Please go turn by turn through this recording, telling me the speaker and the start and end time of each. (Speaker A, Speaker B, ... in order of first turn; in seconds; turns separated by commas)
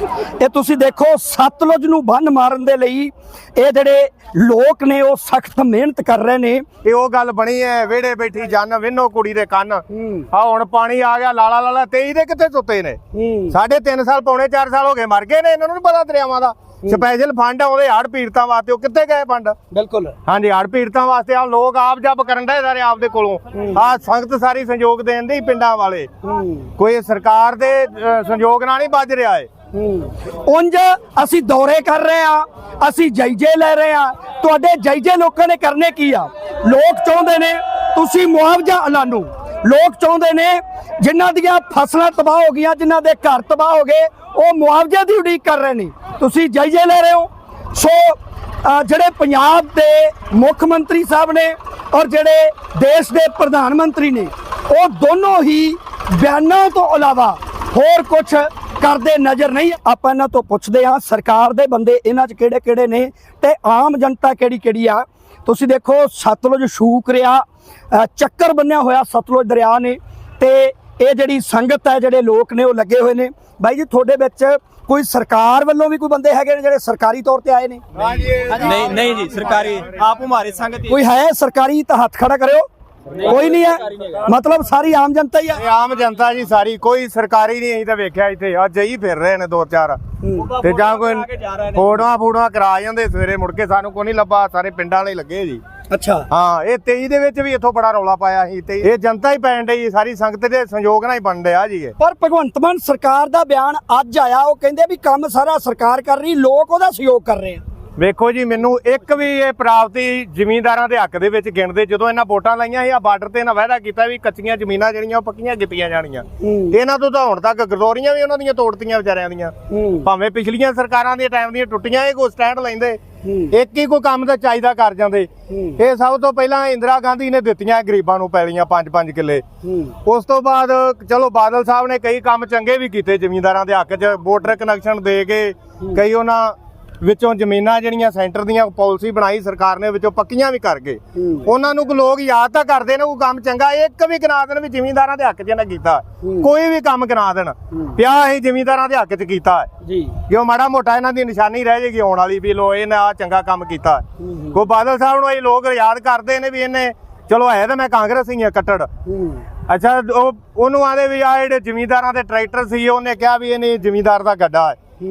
Speaker A: 0.4-6.7, Speaker B: 6.8-19.6, Speaker B: 20.2-26.1, Speaker B: 26.7-29.5, Speaker A: 30.4-77.8, Speaker C: 78.5-80.8, Speaker A: 80.8-82.7, Speaker A: 83.2-85.6, Speaker B: 85.6-90.0, Speaker B: 90.5-95.6, Speaker A: 95.9-96.3, Speaker B: 96.3-101.9, Speaker A: 102.0-107.6, Speaker B: 108.0-129.4, Speaker B: 130.0-149.7, Speaker B: 150.3-158.9, Speaker B: 159.7-164.8